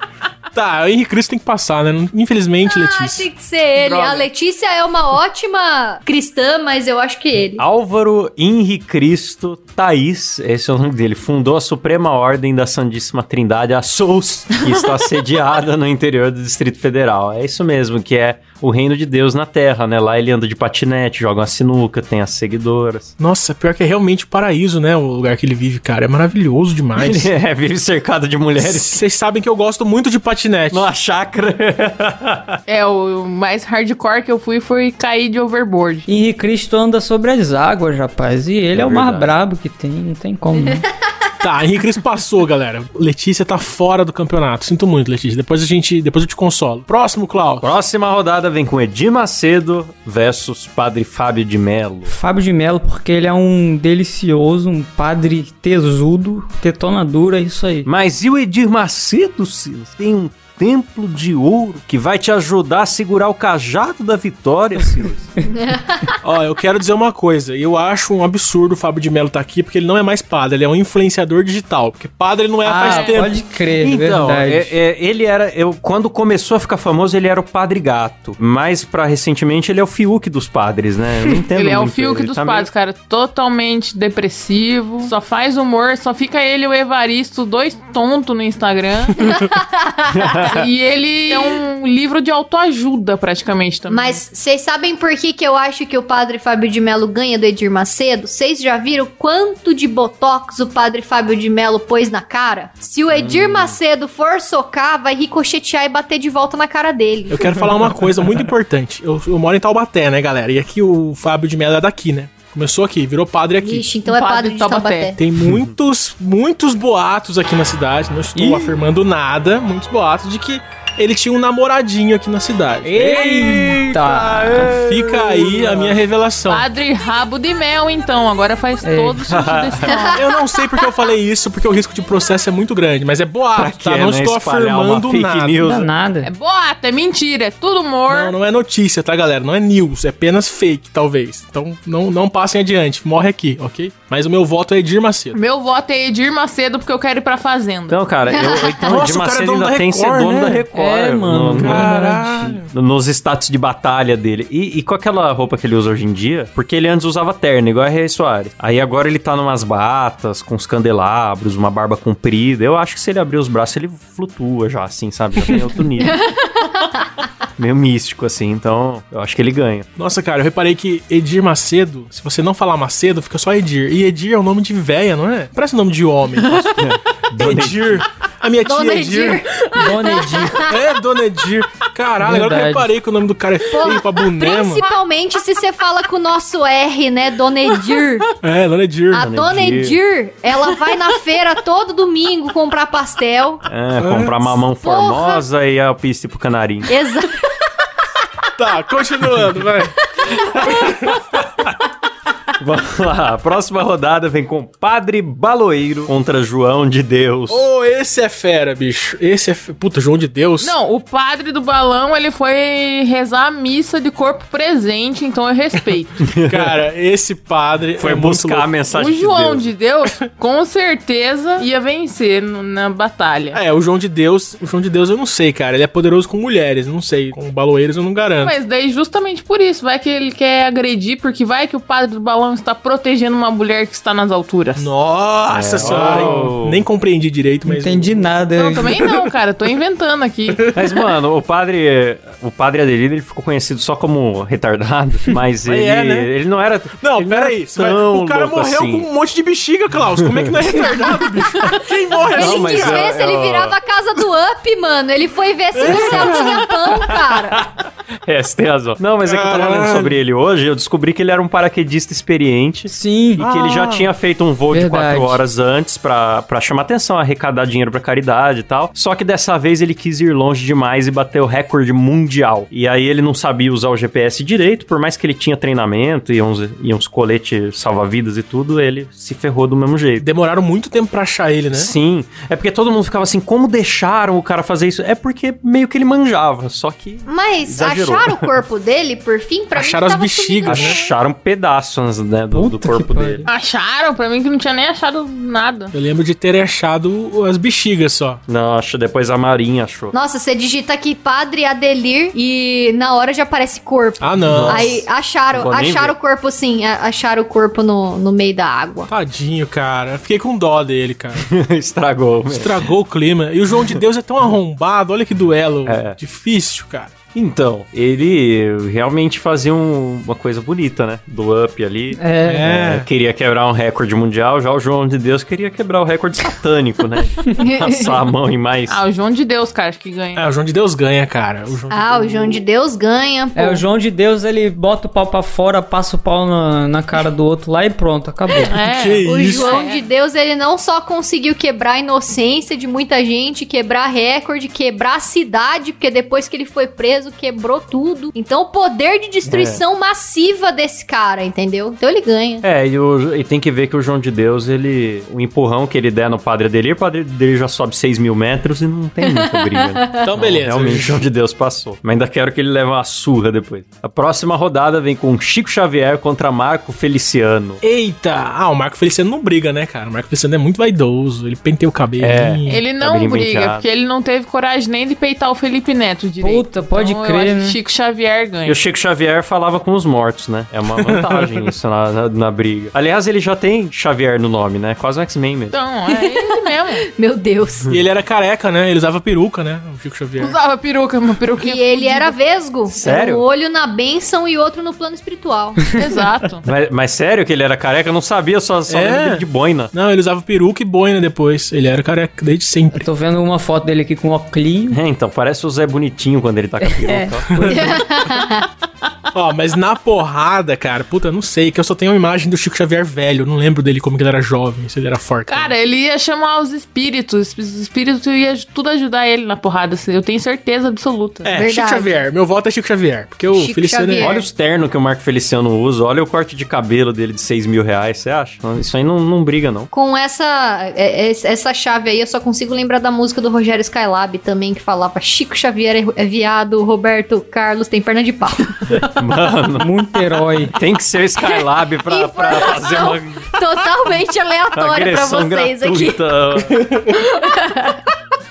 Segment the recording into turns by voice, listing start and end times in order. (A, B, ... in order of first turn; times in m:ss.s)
0:00.5-0:03.3 A
0:02.6-0:07.6 B
0:03.8-0:04.3 C
0:07.6-0:23.1 D
0:23.2-0:27.3 A
0:27.0-0:29.0 D
0:28.6-0:30.9 A
0:30.7-0:32.6 D
0:32.7-0:36.1 C
0:36.1-0:40.9 E
0:38.7-0:39.3 D
0:41.4-0:47.7 A
0:47.6-0:52.1 D
0:52.1-0:57.9 E
0:57.9-1:05.3 D
1:05.5-1:06.2 B
1:06.2-1:13.4 A
1:12.6-1:14.7 E
1:12.8-1:13.2 C
1:13.8-1:22.7 D
1:21.6-1:29.4 C
1:29.2-1:30.4 B
1:30.1-1:30.7 D
1:30.4-1:34.2 C
1:33.9-1:47.6 B
1:43.1-1:43.8 D
1:47.3-1:53.9 A
1:53.6-1:55.2 B
1:54.1-1:55.1 C
1:55.2-2:03.3 A
1:55.4-1:55.7 D
1:58.4-1:58.7 E
2:02.9-2:04.8 E
2:02.9-2:06.0 D
2:04.7-2:06.6 A
2:06.5-2:10.3 C
2:08.8-2:09.5 E
2:09.3-2:09.9 D
2:09.9-2:10.4 B
2:10.1-2:15.8 A
2:13.5-2:15.9 D
2:15.6-2:16.3 E
2:16.2-2:18.4 C
2:18.1-2:25.4 A
2:25.3-2:28.0 C
2:27.9-2:31.9 D
2:28.3-2:29.0 B
2:28.8-2:30.7 A
2:30.7-2:32.6 E
2:31.6-2:32.7 A
2:32.7-2:46.2 D
2:46.1-2:47.0 B
2:47.6-2:49.9 D
2:50.0-2:59.6 A
2:56.8-2:58.0 D
2:58.6-3:00.9 B
2:59.7-3:00.7 E
3:00.6-3:04.8 A
3:02.2-3:02.9 E
3:03.7-3:08.3 B
3:08.4-3:09.3 A
3:09.1-3:13.6 B
3:09.1-3:10.0 D
3:13.7-3:16.9 D
3:14.0-3:14.5 A
3:14.8-3:15.4 B
3:16.9-3:17.4 B
3:18.6-3:21.2 A
3:20.4-3:21.7 D
3:22.6-3:27.7 D
3:27.5-3:30.7 A
3:30.6-3:36.2 C
3:36.2-3:36.8 D
3:36.4-3:38.7 A
3:38.0-3:39.7 D
3:38.9-3:43.6 C
3:43.5-3:48.6 A
3:48.4-3:54.9 C
3:54.8-3:58.3 A
3:55.5-3:56.8 D
3:57.7-3:59.1 E
3:58.6-4:00.8 C
4:00.7-4:09.1 D
4:05.6-4:06.3 A
4:07.0-4:13.1 A
4:10.2-4:10.7 D
4:12.3-4:13.8 D
4:12.3-4:17.6 B
4:15.8-4:16.7 A
4:15.9-4:40.3 D
4:19.2-4:20.2 A
4:22.9-4:23.4 E
4:23.4-4:24.1 A
4:24.7-4:25.4 E
4:40.2-4:41.9 A
4:41.7-4:48.5 D
4:47.3-4:51.1 B
4:49.8-4:51.0 A
4:50.7-4:53.4 D
4:52.5-4:53.5 E
4:53.5-4:55.9 C
4:55.9-4:58.4 A
4:58.5-5:00.1 D
5:00.1-5:09.1 B
5:04.2-5:05.0 A
5:04.5-5:06.2 D
5:09.1-5:11.5 A
5:11.4-5:12.9 D
5:12.5-5:17.1 A
5:15.8-5:16.2 D
5:17.3-5:29.0 D
5:22.2-5:22.7 E
5:22.4-5:23.1 A
5:27.5-5:28.2 B
5:28.9-5:30.5 C
5:30.4-5:32.6 A
5:31.9-5:33.8 B
5:33.6-5:38.8 E
5:38.6-5:40.0 C
5:38.8-5:39.8 A
5:39.2-5:52.6 B
5:49.5-5:49.8 D
5:52.6-6:07.8 D
5:59.3-6:00.2 B
6:00.2-6:01.2 A
6:07.8-6:12.8 A
6:12.2-6:13.9 D
6:12.7-6:18.8 C
6:16.4-6:17.8 E
6:18.6-6:25.8 D
6:21.0-6:21.7 A
6:25.7-6:27.0 C
6:26.1-6:26.4 B
6:27.1-6:27.9 B
6:27.9-6:30.6 A
6:30.4-6:32.4 C
6:31.6-6:35.8 B
6:32.9-6:33.4 D
6:36.0-6:36.6 C
6:36.6-6:39.9 D
6:38.9-6:43.1 A
6:42.9-6:45.0 E
6:44.9-6:47.8 D
6:46.8-6:48.3 E
6:47.7-6:48.7 B
6:49.3-6:55.7 A
6:55.5-7:01.5 C
7:01.4-7:04.4 A
7:01.5-7:02.2 B
7:03.5-7:04.5 B
7:04.2-7:09.9 D
7:09.9-7:19.1 B
7:18.9-7:19.9 D
7:19.8-7:20.7 E
7:20.7-7:23.6 D
7:22.0-7:26.2 B
7:24.7-7:26.9 D
7:26.7-7:27.2 A
7:27.1-7:28.1 B